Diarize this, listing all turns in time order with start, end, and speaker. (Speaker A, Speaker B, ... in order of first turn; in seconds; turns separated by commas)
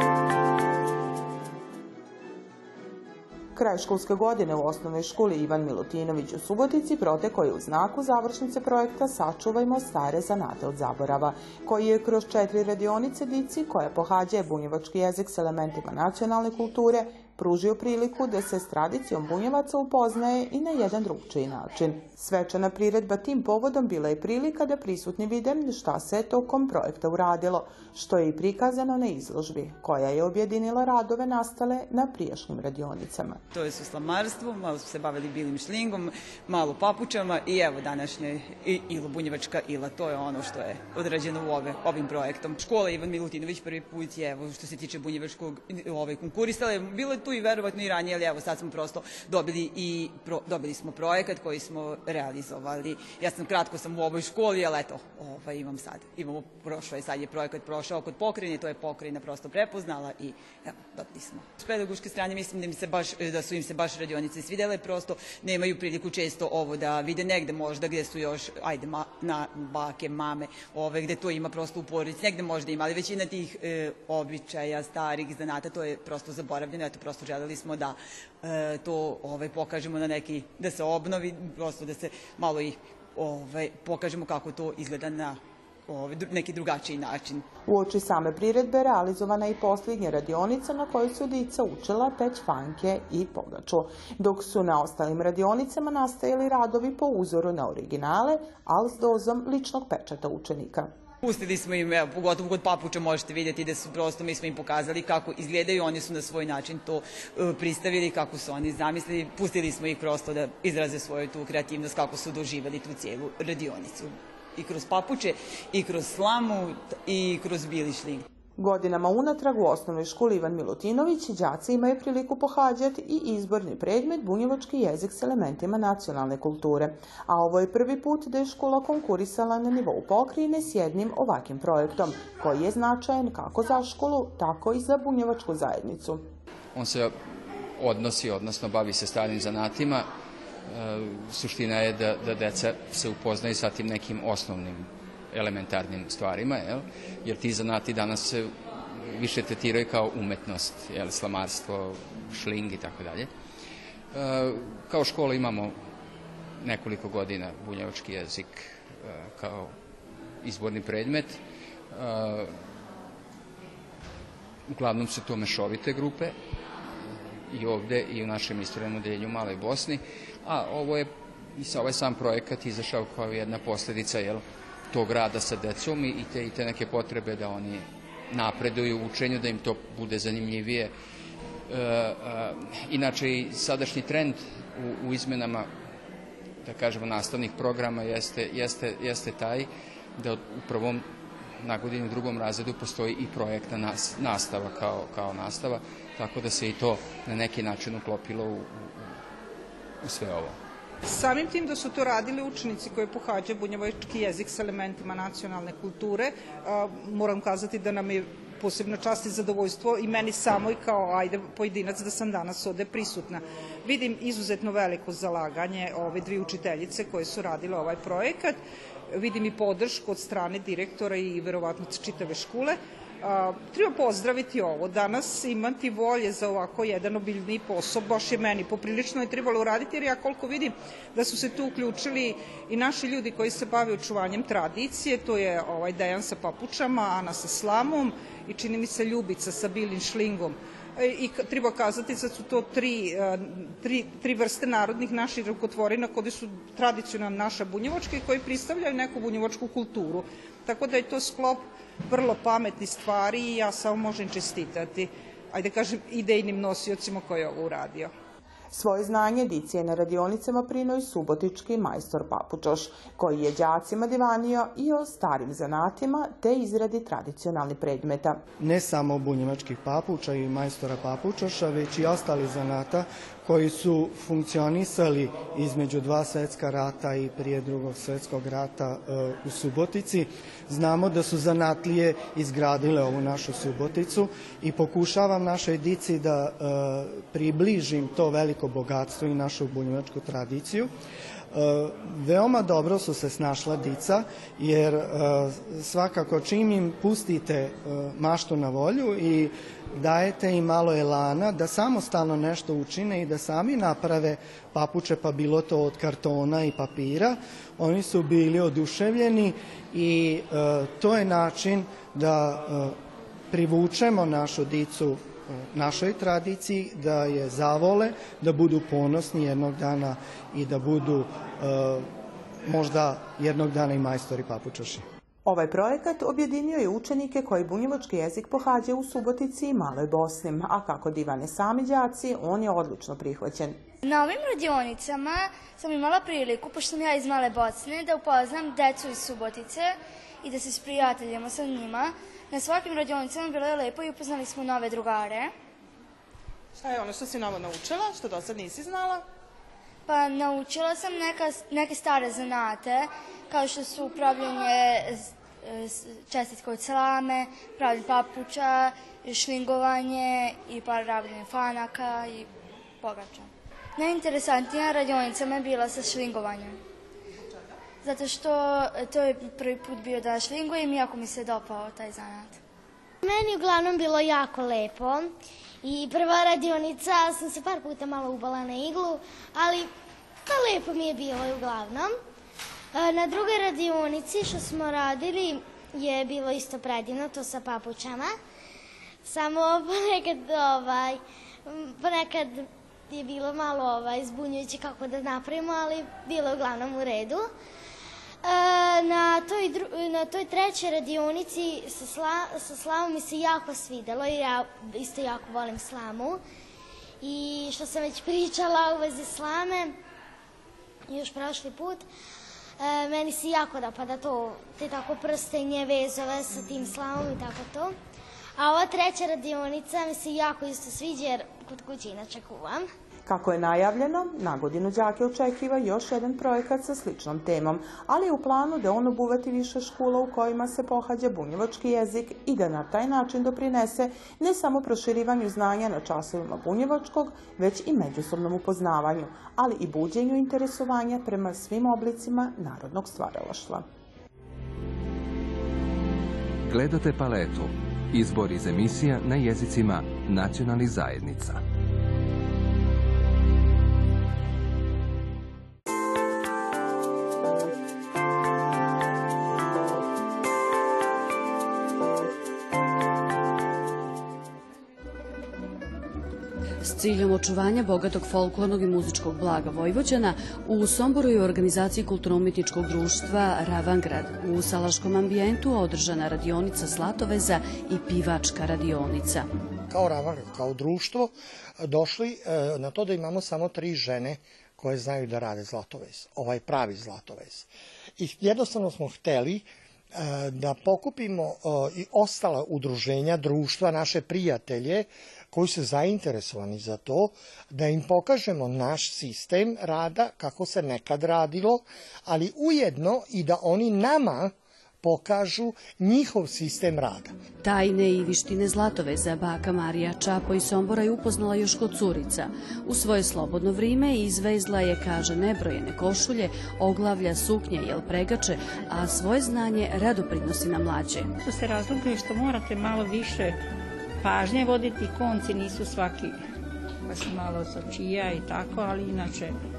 Speaker A: 3.5-33.4, Speaker B: 33.5-87.5, Speaker A: 87.7-100.9, Speaker B: 101.2-118.3, Speaker A: 118.6-136.2, Speaker C: 136.7-140.1, Speaker C: 140.7-153.3, Speaker C: 154.1-155.8, Speaker C: 156.6-159.8, Speaker C: 160.4-161.4, Speaker C: 161.9-162.7, Speaker C: 164.7-166.3, Speaker C: 167.0-180.9, Speaker C: 181.7-185.7, Speaker C: 186.6-191.1, Speaker C: 191.6-199.2, Speaker C: 200.0-200.6, Speaker D: 201.0-218.6, Speaker D: 219.1-258.1, Speaker A: 258.7-268.4, Speaker E: 268.6-290.9, Speaker E: 291.5-313.0, Speaker E: 313.5-322.1, Speaker E: 322.6-325.1, Speaker A: 325.4-333.8, Speaker F: 334.0-345.5, Speaker A: 346.8-349.2, Speaker F: 350.1-362.5, Speaker F: 363.0-366.8, Speaker F: 368.0-372.6, Speaker G: 373.2-375.3, Speaker G: 375.8-379.9, Speaker G: 380.5-382.1, Speaker G: 382.9-388.3, Speaker G: 389.2-397.5, Speaker G: 398.4-406.4, Speaker G: 407.2-410.0, Speaker G: 411.1-412.1, Speaker G: 412.8-417.9, Speaker G: 418.6-422.9, Speaker A: 423.3-443.9, Speaker H: 446.7-451.6, Speaker I: 466.8-479.5, Speaker J: 479.9-507.4, Speaker I: 507.6-521.3, Speaker K: 521.4-523.6, Speaker K: 524.2-526.4, Speaker K: 527.1-529.5